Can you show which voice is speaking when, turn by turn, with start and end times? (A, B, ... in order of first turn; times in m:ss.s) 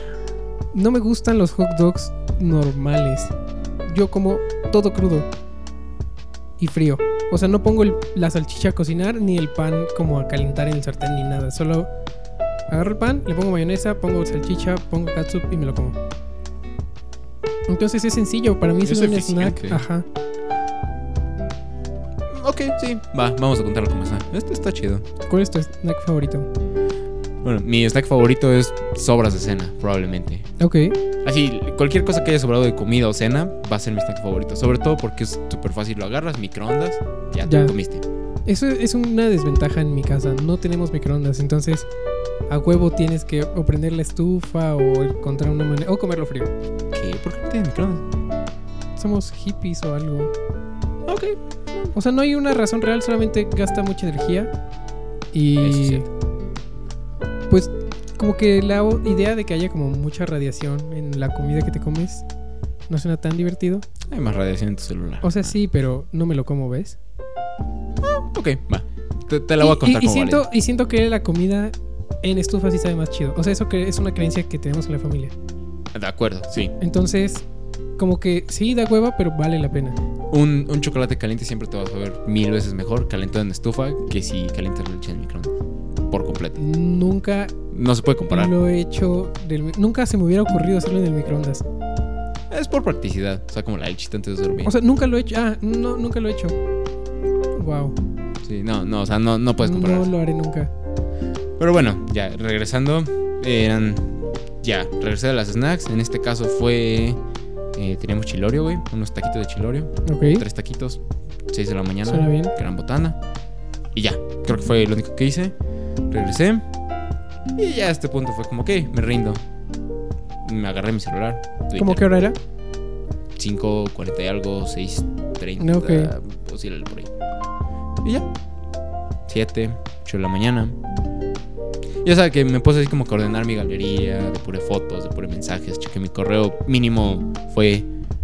0:00.7-0:03.3 A
0:03.8-0:05.3 A
0:06.6-0:11.9 A
0:12.7-0:16.0 A
0:17.7-0:20.0 A
0:18.8-0:19.8 B
0:22.3-0:25.0 B
0:25.2-0:26.5 A
0:27.4-0:30.5 B
0:30.6-0:31.0 A
0:31.2-0:38.0 B
0:37.4-0:37.7 A
0:38.4-0:41.9 A
0:42.5-0:46.5 A
0:46.9-0:48.0 B
0:49.0-0:50.3 A
0:51.1-0:51.4 B
0:51.9-0:54.5 A
0:55.3-0:56.0 A
0:55.6-0:56.1 B
0:57.5-1:02.2 A
1:02.9-1:03.8 A
1:04.1-1:05.6 B
1:05.2-1:07.0 A
1:08.0-1:10.4 B
1:09.6-1:15.3 A
1:15.9-1:16.7 B
1:16.8-1:17.4 A
1:18.0-1:20.0 A
1:20.3-1:25.6 B
1:26.1-1:26.6 B
1:26.6-1:27.5 A
1:27.7-1:28.5 B
1:28.3-1:31.6 A
1:32.5-1:34.7 B
1:34.6-1:36.6 A
1:37.5-1:38.0 A
1:38.4-1:40.1 B
1:39.6-1:40.7 A
1:41.6-1:47.2 B
1:47.7-1:53.2 B
1:50.0-1:50.4 A
1:52.0-1:52.5 A
1:53.9-1:55.5 B
1:56.1-1:56.6 B
1:57.6-1:59.4 B
2:00.4-2:02.0 B
2:01.8-2:02.4 A
2:03.4-2:07.1 B
2:05.6-2:06.1 A
2:09.3-2:10.8 B
2:12.0-2:17.9 B